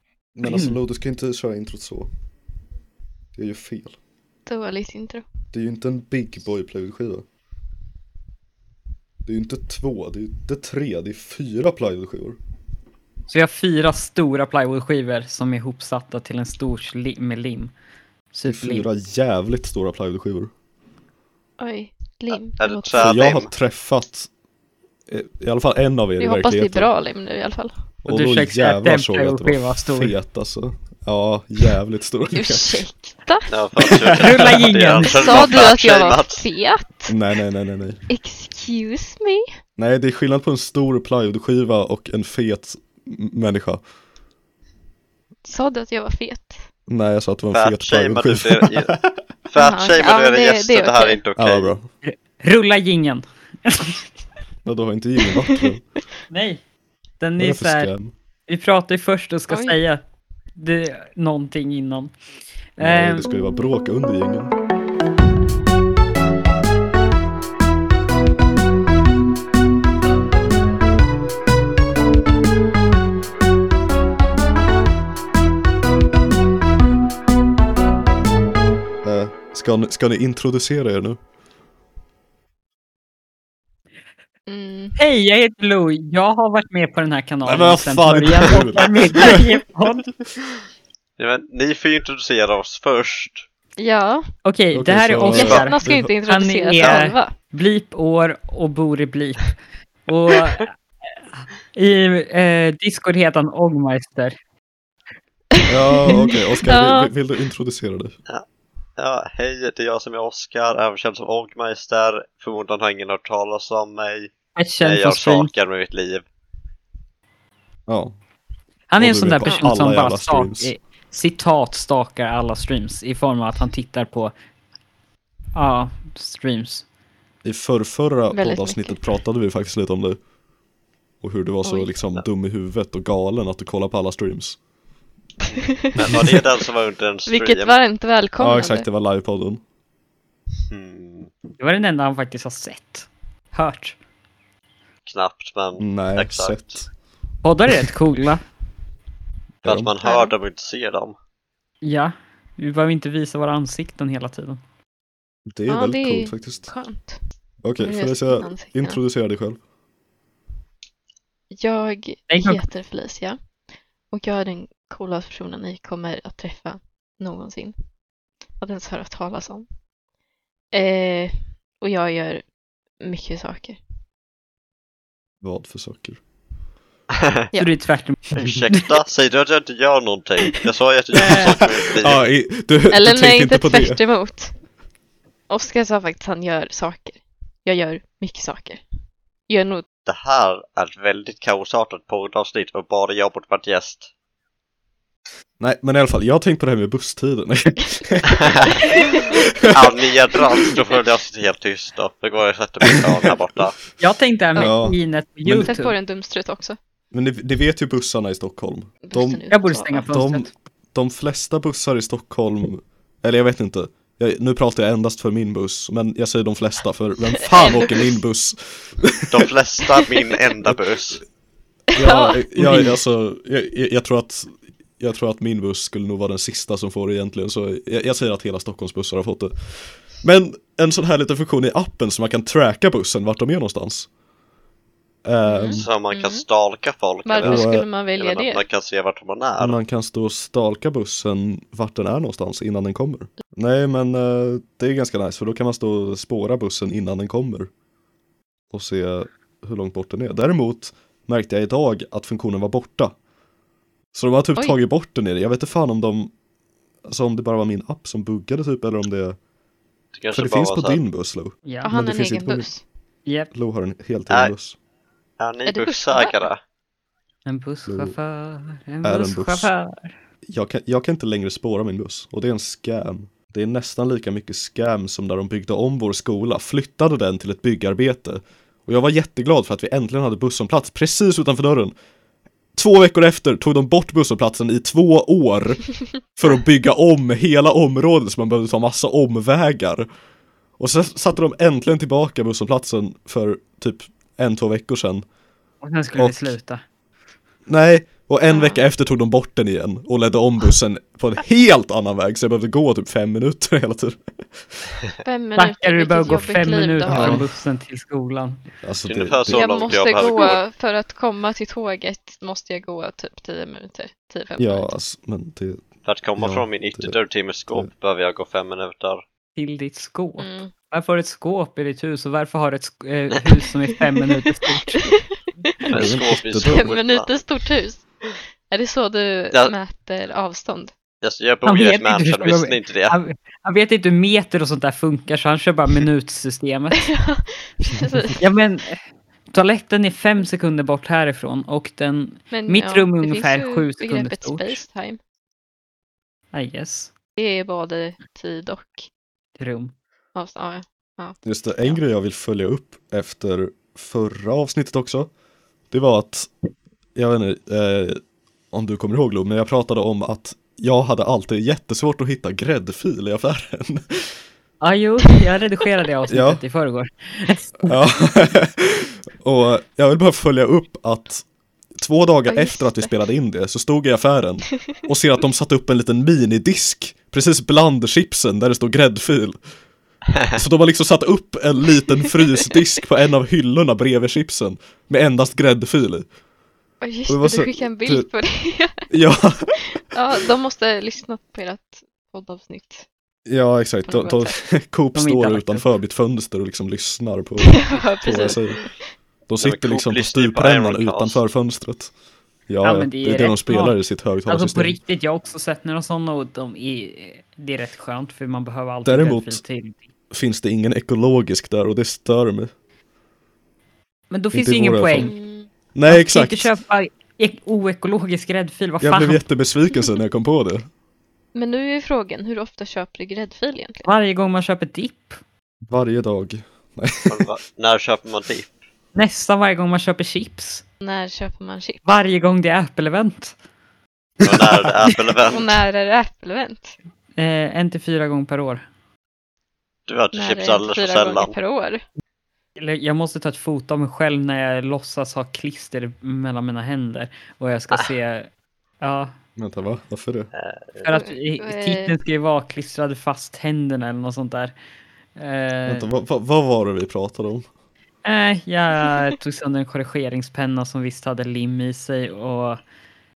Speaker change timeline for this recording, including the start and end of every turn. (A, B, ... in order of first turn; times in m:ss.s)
0:00.4-0:02.1 A
0:00.4-0:00.8 B
0:03.4-0:04.0 A
0:04.5-0:05.2 C
0:05.5-0:07.2 A
0:09.2-0:12.4 A
0:13.3-0:17.7 B
0:18.3-0:18.9 B
0:18.5-0:20.5 A
0:21.6-0:23.1 C
0:22.3-0:23.5 D
0:23.0-0:24.3 A
0:25.1-0:26.9 A
0:26.2-0:27.7 C
0:28.0-0:32.8 A
0:28.1-0:30.1 B
0:32.3-0:33.5 C
0:33.5-0:36.4 D
0:33.8-0:34.6 A
0:34.2-0:35.4 B
0:35.0-0:37.2 C
0:37.1-0:38.0 A
0:38.1-0:39.5 C
0:39.8-0:43.8 A
0:45.4-0:46.7 C
0:46.9-0:48.8 A
0:47.5-0:51.7 D
0:49.6-0:51.2 C
0:51.4-0:51.9 A
0:52.0-0:54.0 B
0:54.6-0:55.8 A
0:56.3-0:56.6 B
0:57.2-0:57.9 B
0:57.4-0:58.1 A
0:58.5-1:00.0 B
0:59.5-0:59.8 C
1:00.6-1:02.1 B
1:02.8-1:03.3 B
1:02.8-1:04.5 A
1:19.0-1:21.2 A
1:24.5-1:25.0 C
1:25.0-1:30.1 B
1:27.4-1:29.4 A
1:31.2-1:33.4 D
1:33.8-1:34.3 C
1:34.4-1:39.5 B
1:34.7-1:36.1 A
1:35.2-1:37.4 C
1:36.8-1:37.0 D
1:40.1-1:40.8 B
1:41.4-1:44.4 B
1:45.7-1:48.2 A
1:45.9-1:47.1 C
1:49.0-1:56.2 D
1:54.6-1:55.5 B
1:57.9-1:58.1 A
1:58.9-2:04.3 B
1:59.0-2:00.7 A
2:05.6-2:06.8 B
2:07.4-2:10.2 A
2:08.3-2:09.0 C
2:11.2-2:14.6 A
2:11.6-2:11.9 C
2:16.0-2:16.4 C
2:16.0-2:17.8 D
2:17.3-2:18.9 C
2:18.4-2:19.6 A
2:20.7-2:21.3 D
2:21.6-2:24.0 B
2:25.1-2:26.8 D
2:25.8-2:26.9 A
2:27.4-2:28.4 B
2:29.6-2:29.9 A
2:29.6-2:31.2 D
2:30.0-2:30.3 C
2:31.8-2:34.6 B
2:35.5-2:36.7 A
2:35.7-2:37.2 C
2:37.6-2:39.6 A
2:37.8-2:39.0 C
2:41.5-2:48.0 C
2:42.3-2:42.6 B
2:48.6-2:49.7 C
2:50.7-2:53.8 C
2:55.4-2:56.2 A
2:57.6-2:58.9 B
2:58.3-3:02.2 D
3:01.2-3:01.5 B
3:01.3-3:04.0 A
3:02.9-3:04.6 C
3:05.5-3:08.8 C
3:09.5-3:09.8 C
3:10.1-3:14.1 D
3:15.6-3:20.8 A
3:18.3-3:18.9 D
3:18.9-3:19.4 C
3:19.7-3:23.8 D
3:24.0-3:26.0 B
3:24.6-3:25.8 A
3:25.6-3:26.8 C
3:27.1-3:39.5 A
3:29.1-3:30.1 C
3:29.5-3:30.5 B
3:37.5-3:38.2 C
3:39.3-3:41.2 D
3:41.9-3:42.4 C
3:41.9-3:54.1 A
3:42.6-3:43.0 B
3:55.2-3:55.9 A
3:55.4-3:56.4 C
3:55.8-3:59.8 D
3:57.3-3:58.6 C
3:57.4-3:57.9 A
3:59.6-4:07.7 A
4:08.7-4:13.2 A
4:14.1-4:16.3 A
4:17.0-4:19.4 A
4:20.1-4:21.0 D
4:20.3-4:22.7 A
4:21.6-4:21.9 B
4:21.8-4:22.8 C
4:23.3-4:23.5 B
4:23.5-4:24.8 A
4:25.4-4:26.6 D
4:25.7-4:26.4 C
4:27.5-4:30.1 B
4:27.9-4:28.2 A
4:29.0-4:29.7 A
4:30.4-4:42.0 A
4:42.7-4:50.1 A
4:50.8-4:55.3 A
4:55.8-4:56.8 B
4:56.2-4:56.5 A
4:57.7-5:04.9 A
4:58.5-4:58.8 C
5:05.2-5:07.5 C
5:05.6-5:08.6 B
5:07.1-5:07.4 A
5:08.8-5:10.4 A
5:09.0-5:10.6 D
5:09.5-5:14.9 C
5:14.6-5:17.9 A
5:16.0-5:19.2 D
5:19.6-5:25.2 B
5:20.4-5:20.7 C
5:25.9-5:27.3 D
5:25.9-5:26.9 A
5:26.6-5:28.2 C
5:28.7-5:30.9 C
5:31.2-5:33.2 D
5:31.6-5:37.1 B
5:37.0-5:38.4 C
5:38.4-5:44.8 B
5:42.5-5:45.2 C
5:46.5-5:47.1 B
5:47.4-5:49.1 C
5:49.6-5:49.9 B
5:50.4-5:52.0 C
5:51.4-5:55.3 A
5:55.9-5:56.5 A
5:57.2-6:04.4 A
6:04.8-6:08.0 B
6:06.3-6:06.6 A
6:07.9-6:11.5 A
6:12.0-6:19.6 A
6:12.5-6:13.2 C
6:20.5-6:26.3 A
6:27.0-6:29.1 C
6:27.3-6:28.3 A
6:29.1-6:30.0 A
6:30.0-6:33.1 C
6:33.5-6:38.9 A
6:34.0-6:34.6 C
6:35.1-6:35.9 B
6:37.6-6:39.0 C
6:39.5-6:42.1 A
6:39.6-6:41.4 D
6:42.7-6:45.0 A
6:42.8-6:50.1 B
6:49.0-6:49.6 A
6:50.3-6:52.7 A
6:54.3-6:55.3 B
6:54.5-6:55.4 A
6:55.2-6:55.7 C
6:55.9-6:56.7 A
6:56.1-6:59.5 B
6:59.0-7:00.9 A
7:01.5-7:04.1 C
7:04.0-7:05.4 B
7:05.9-7:07.4 A
7:07.3-7:08.7 D
7:09.1-7:10.8 B
7:11.0-7:12.0 C
7:12.0-7:13.6 B
7:14.4-7:15.8 D
7:15.5-7:17.0 C
7:17.4-7:18.8 B
7:20.1-7:21.6 D
7:20.3-7:22.0 C
7:22.8-7:28.5 B
7:29.0-7:29.3 B
7:29.6-7:30.5 A
7:30.5-7:31.0 D
7:31.0-7:34.7 B
7:31.1-7:32.1 C
7:35.4-7:36.1 B
7:35.9-7:37.7 A
7:38.2-7:42.8 B